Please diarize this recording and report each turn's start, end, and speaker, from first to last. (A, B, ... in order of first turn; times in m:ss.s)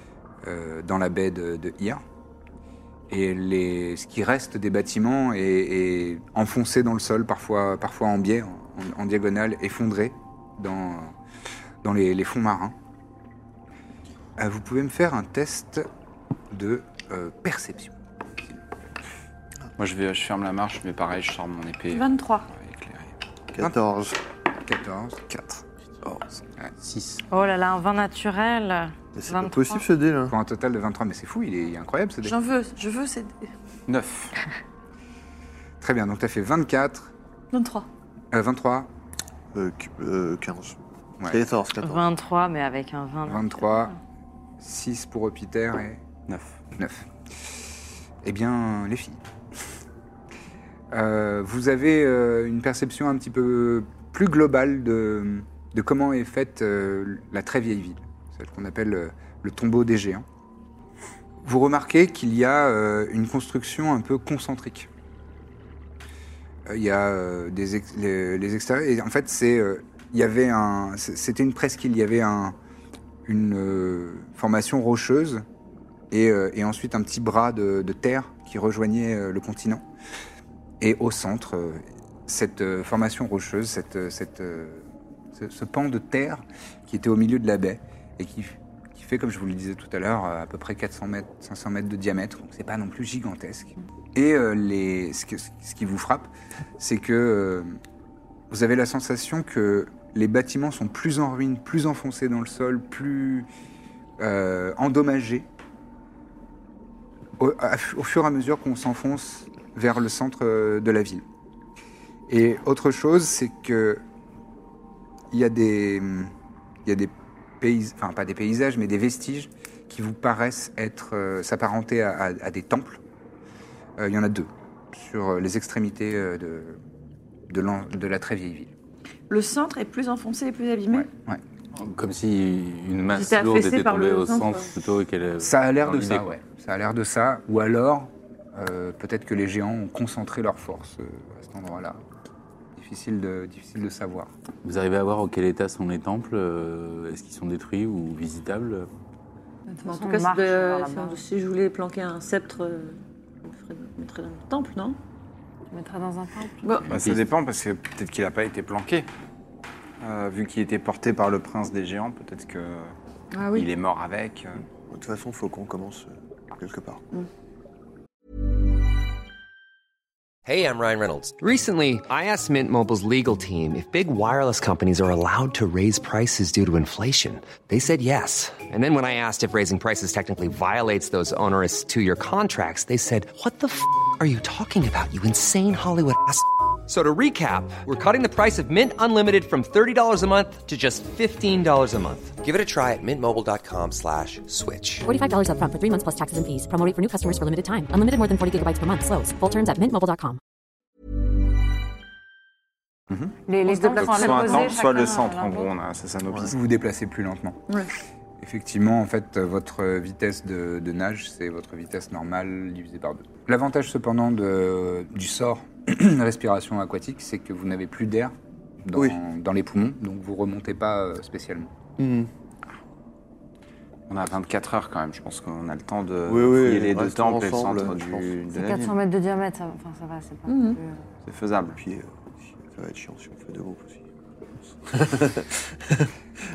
0:00.4-0:02.0 A
0:03.1-0:11.1 A
0:11.8-0:12.7 A
0:14.4-0:15.8 A
0:16.5-0:18.0 A
0:19.8-0:23.1 B
0:21.9-0:22.5 C
0:23.5-0:24.1 D
0:24.6-0:25.2 A
0:26.8-0:27.2 E
0:27.3-0:29.8 F
0:29.1-0:30.3 D
0:30.3-0:32.4 A
0:32.2-0:33.5 C
0:33.9-0:34.3 B
0:35.8-0:37.1 A
0:37.5-0:37.9 C
0:38.3-0:38.9 A
0:39.5-0:42.1 D
0:41.2-0:41.4 A
0:41.8-0:44.0 F
0:43.2-0:43.9 A
0:44.6-0:46.0 A
0:46.3-0:46.6 B
0:46.8-0:47.1 A
0:48.2-0:49.2 A
0:50.9-1:00.2 A
1:01.4-1:04.9 A
1:06.7-1:12.6 A
1:13.2-1:15.4 A
1:16.1-1:19.8 A
1:20.8-1:37.8 A
1:38.5-1:43.5 A
1:44.2-1:45.5 A
1:47.4-1:51.2 A
1:52.3-1:54.0 A
1:55.3-1:56.3 A
1:56.8-2:03.0 A
2:04.0-2:06.8 A
2:07.5-2:08.7 A
2:09.3-2:11.1 C
2:10.9-2:11.4 A
2:11.8-2:16.3 E
2:13.1-2:14.8 C
2:15.4-2:22.0 A
2:22.8-2:24.3 A
2:24.6-2:28.9 E
2:29.7-2:31.2 F
2:29.8-2:35.0 C
2:35.7-2:36.6 F
2:36.6-2:36.9 C
2:36.9-2:37.2 E
2:36.9-2:39.1 B
2:40.0-2:42.9 B
2:43.3-2:43.7 C
2:43.5-2:44.6 B
2:44.9-2:47.0 D
2:50.4-3:15.1 G
3:15.0-3:20.4 H
3:23.5-3:25.7 F
3:23.7-3:24.6 C
3:23.9-3:26.6 B
3:26.5-3:27.6 A
3:28.4-3:41.7 A
3:42.0-3:42.3 D
3:44.1-3:49.0 B
3:46.3-3:48.3 D
3:48.5-3:51.0 F
3:50.5-3:50.8 C
3:51.2-3:51.8 B
3:51.7-3:54.0 D
3:54.9-3:56.1 D